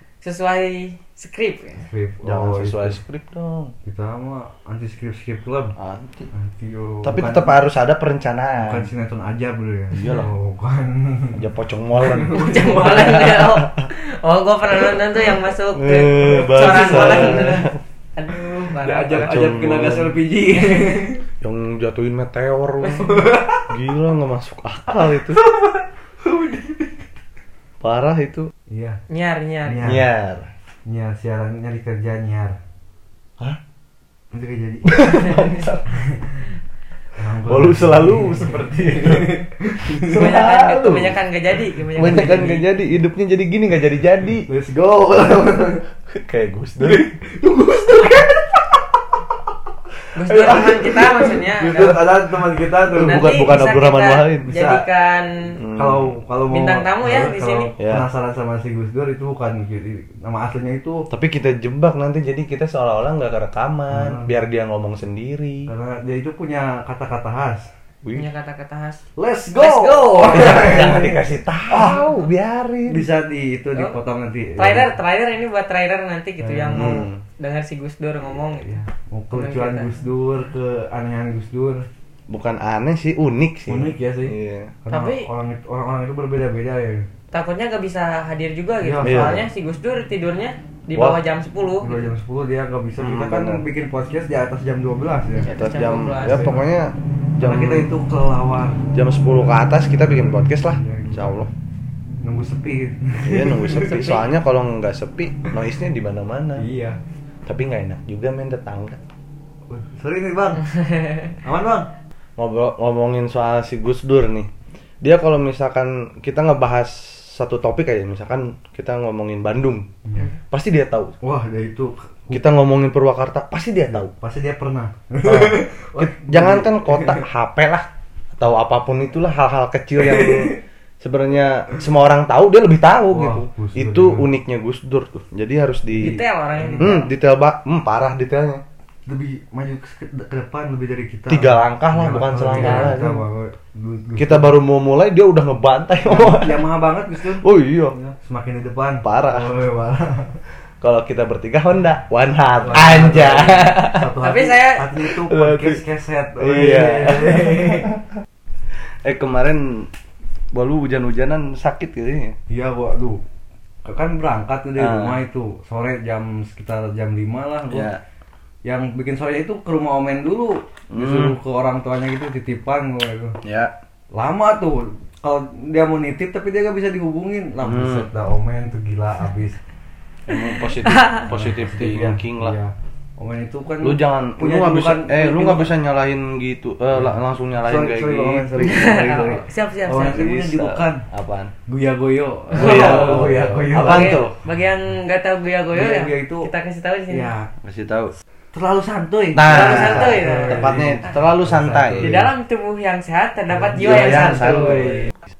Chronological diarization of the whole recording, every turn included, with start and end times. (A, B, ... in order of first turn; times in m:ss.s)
0:00.2-0:01.9 A
0:01.8-0:03.0 B
0:02.2-0:03.7 C
0:03.8-0:05.7 B
0:05.8-0:06.3 C
0:06.3-0:07.6 B
0:07.0-0:08.9 C
0:08.6-0:11.4 B
0:09.9-0:10.3 C
0:11.3-0:13.9 C
0:11.9-0:13.2 B
0:12.3-0:19.3 A
0:15.7-0:17.8 C
0:16.6-0:17.6 B
0:18.8-0:21.2 B
0:19.1-0:20.2 C
0:20.6-0:20.9 A
0:21.4-0:23.1 C
0:22.9-0:23.6 B
0:23.7-0:25.4 C
0:25.1-0:27.1 B
0:27.8-0:28.5 C
0:28.7-0:29.0 B
0:29.1-0:29.9 A
0:29.6-0:30.1 B
0:29.8-0:30.5 C
0:30.8-0:32.6 B
0:34.3-0:36.5 B
0:34.8-0:36.0 C
0:37.2-0:40.2 B
0:37.4-0:39.4 C
0:39.9-0:41.2 C
0:40.0-0:42.7 A
0:42.0-0:44.5 C
0:42.0-0:42.3 B
0:44.5-0:45.8 B
0:46.1-0:47.1 C
0:46.8-0:48.8 B
0:50.2-0:52.0 A
0:50.2-0:52.0 C
0:50.3-0:53.4 B
0:52.9-0:54.8 C
0:53.0-0:55.6 A
0:55.5-0:56.1 C
0:55.7-1:01.0 B
0:56.5-0:57.7 A
0:57.8-0:58.0 C
1:01.1-1:05.7 C
1:03.9-1:04.3 B
1:05.7-1:07.7 B
1:08.1-1:09.0 A
1:09.2-1:11.2 B
1:09.5-1:11.0 A
1:10.2-1:13.1 C
1:12.9-1:14.9 B
1:14.6-1:18.8 A
1:16.4-1:17.0 B
1:16.7-1:17.2 C
1:18.6-1:21.9 B
1:19.3-1:19.9 A
1:22.3-1:24.7 C
1:23.7-1:24.3 B
1:24.8-1:27.1 B
1:24.9-1:25.3 A
1:27.3-1:32.1 A
1:28.8-1:29.4 B
1:29.0-1:29.4 C
1:31.8-1:35.5 B
1:33.0-1:33.6 C
1:35.4-1:36.5 A
1:35.5-1:37.9 C
1:36.2-1:36.6 B
1:37.4-1:38.8 B
1:38.9-1:41.5 C
1:40.6-1:41.5 B
1:42.2-1:44.0 B
1:43.2-1:46.6 C
1:43.7-1:44.3 A
1:46.6-1:47.0 B
1:47.4-1:49.0 C
1:49.7-1:50.7 B
1:50.7-1:51.3 A
1:51.4-1:51.9 B
1:52.4-1:54.5 C
1:55.0-1:59.9 C
2:00.5-2:01.1 C
2:01.2-2:02.4 B
2:02.3-2:04.1 C
2:03.9-2:07.2 B
2:05.2-2:16.2 C
2:10.0-2:10.6 B
2:13.1-2:14.3 B
2:16.0-2:17.1 A
2:16.6-2:17.0 B
2:16.8-2:18.6 C
2:19.0-2:24.5 B
2:21.3-2:23.2 C
2:22.6-2:23.0 A
2:24.2-2:26.6 C
2:26.0-2:30.4 B
2:27.2-2:28.0 C
2:29.0-2:29.5 C
2:30.8-2:34.1 C
2:32.6-2:37.9 B
2:34.2-2:34.9 A
2:35.0-2:35.8 C
2:36.4-2:38.0 C
2:39.0-2:39.9 C
2:40.5-2:42.4 C
2:42.5-2:43.2 B
2:43.8-2:47.9 B
2:44.8-2:45.2 C
2:47.7-2:48.0 C
2:48.6-2:53.4 B
2:50.9-2:51.4 C
2:53.4-2:53.7 C
2:54.1-2:59.6 B
2:57.6-2:58.1 C
3:00.3-3:02.6 C
3:00.8-3:01.2 A
3:01.3-3:05.7 B
3:03.8-3:09.1 C
3:06.9-3:11.0 B
3:08.6-3:10.2 A
3:09.9-3:11.5 C
3:11.6-3:14.2 B
3:12.5-3:14.3 C
3:12.6-3:17.3 A
3:15.7-3:16.5 B
3:17.1-3:17.5 B
3:17.6-3:18.1 C
3:18.5-3:22.3 B
3:19.3-3:22.2 C
3:19.5-3:20.8 A
3:22.0-3:25.0 A
3:23.5-3:25.0 B
3:23.8-3:25.1 C